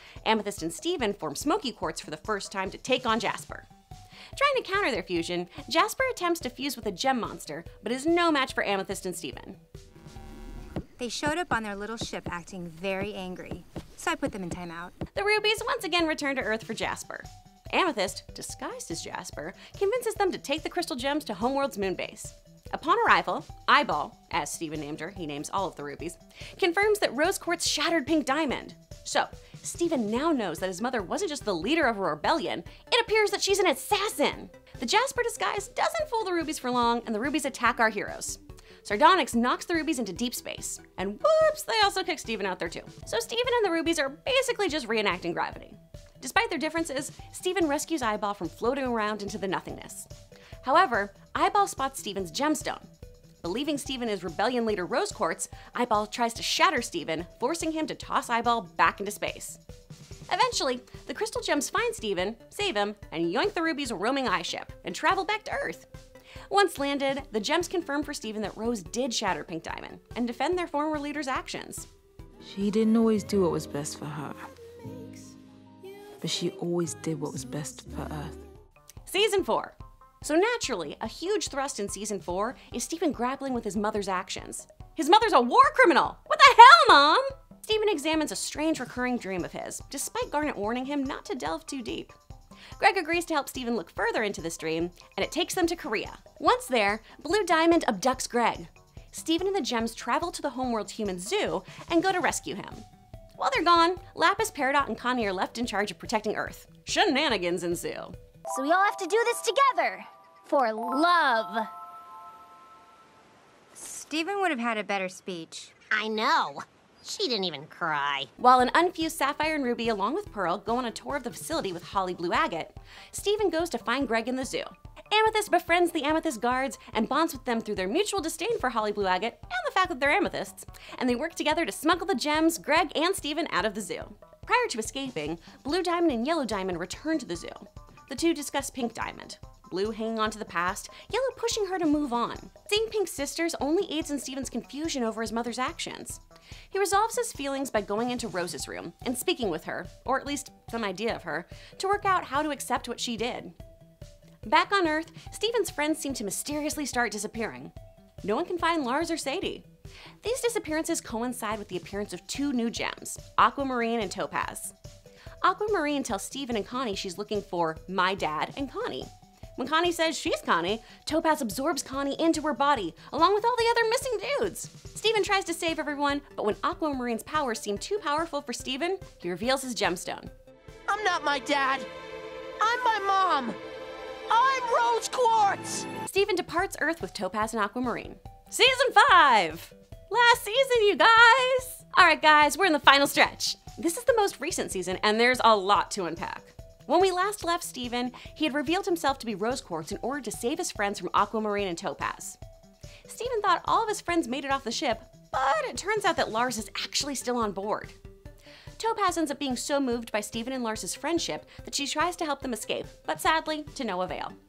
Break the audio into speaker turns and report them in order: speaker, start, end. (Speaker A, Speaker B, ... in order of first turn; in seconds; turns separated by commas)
Speaker A: 0.2-3.7, Speaker A: 4.4-9.6, Speaker B: 11.0-14.9, Speaker A: 15.1-50.1, Speaker A: 50.6-52.9, Speaker A: 53.4-59.6, Speaker A: 60.3-65.9, Speaker A: 66.5-71.9, Speaker C: 72.4-74.5, Speaker C: 76.2-78.4, Speaker A: 79.1-92.2, Speaker A: 92.8-102.8, Speaker A: 103.4-108.2, Speaker D: 108.5-111.7, Speaker B: 113.8-115.8, Speaker E: 115.9-118.3, Speaker A: 118.4-153.6, Speaker A: 154.5-159.7, Speaker A: 160.2-164.8, Speaker A: 165.4-180.3, Speaker F: 180.9-181.9, Speaker F: 182.6-183.6, Speaker F: 184.3-185.9, Speaker A: 186.1-202.4, Speaker A: 203.1-208.0, Speaker A: 208.8-214.4